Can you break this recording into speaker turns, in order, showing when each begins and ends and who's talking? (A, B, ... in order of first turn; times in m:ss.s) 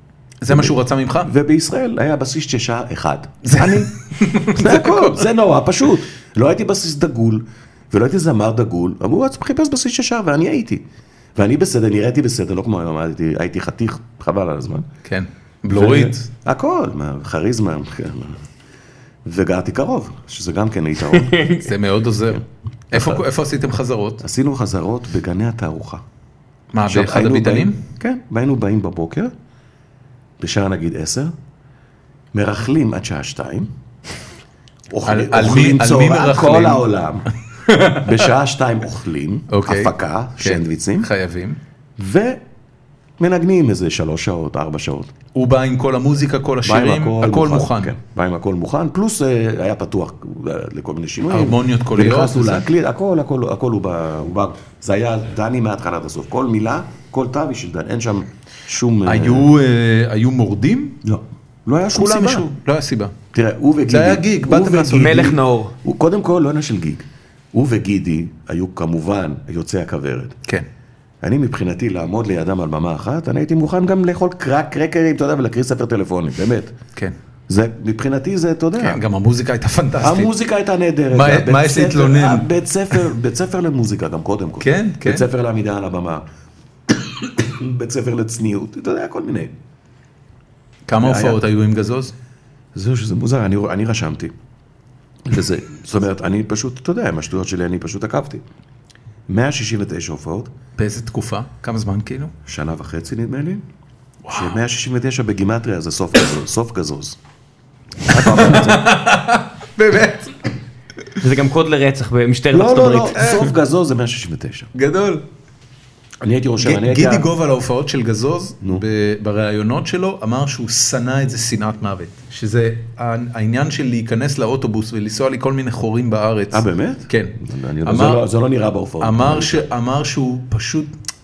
0:00.4-0:01.3 A
0:00.5-0:03.9 B
0:03.4-0:05.2 A
0:04.5-0:10.8 B
0:11.4-0:14.9 B
0:15.0-0:16.3 A
0:15.7-0:18.4 B
0:19.2-0:21.5 B
0:21.3-0:21.6 C
0:21.5-0:24.2 A
0:22.9-0:23.2 B
0:24.2-0:26.0 B
0:26.7-0:27.8 A
0:26.9-0:29.3 B
0:30.4-0:31.3 B
0:32.3-0:33.7 B
0:34.9-0:37.3 B
0:35.1-0:36.8 A
0:37.7-0:38.2 A
0:38.0-0:41.1 B
0:39.5-0:41.6 A
0:42.0-0:42.4 B
0:43.2-0:45.1 B
0:45.4-0:47.9 A
0:46.6-0:59.5 B
0:51.3-0:52.6 A
0:59.1-1:01.0 A
1:01.0-1:02.5 B
1:01.9-1:03.1 A
1:03.3-1:10.3 B
1:03.9-1:05.3 A
1:04.9-1:05.7 C
1:11.2-1:16.8 B
1:17.5-1:19.0 B
1:18.8-1:20.3 A
1:20.0-1:26.2 B
1:21.1-1:23.0 A
1:24.6-1:25.2 A
1:26.9-1:29.5 B
1:30.9-1:32.1 A
1:31.0-1:31.4 B
1:32.8-1:34.3 B
1:35.3-1:38.4 B
1:39.3-1:40.5 B
1:40.8-1:42.3 A
1:42.5-1:43.6 B
1:44.3-1:44.5 A
1:44.3-1:47.2 B
1:48.0-1:48.9 B
1:48.1-1:50.5 A
1:51.2-1:53.4 C
1:52.5-1:54.7 B
1:53.2-1:53.5 A
1:54.8-1:55.2 A
1:56.2-1:57.3 B
1:56.6-2:08.2 A
2:06.5-2:09.7 B
2:09.0-2:10.9 A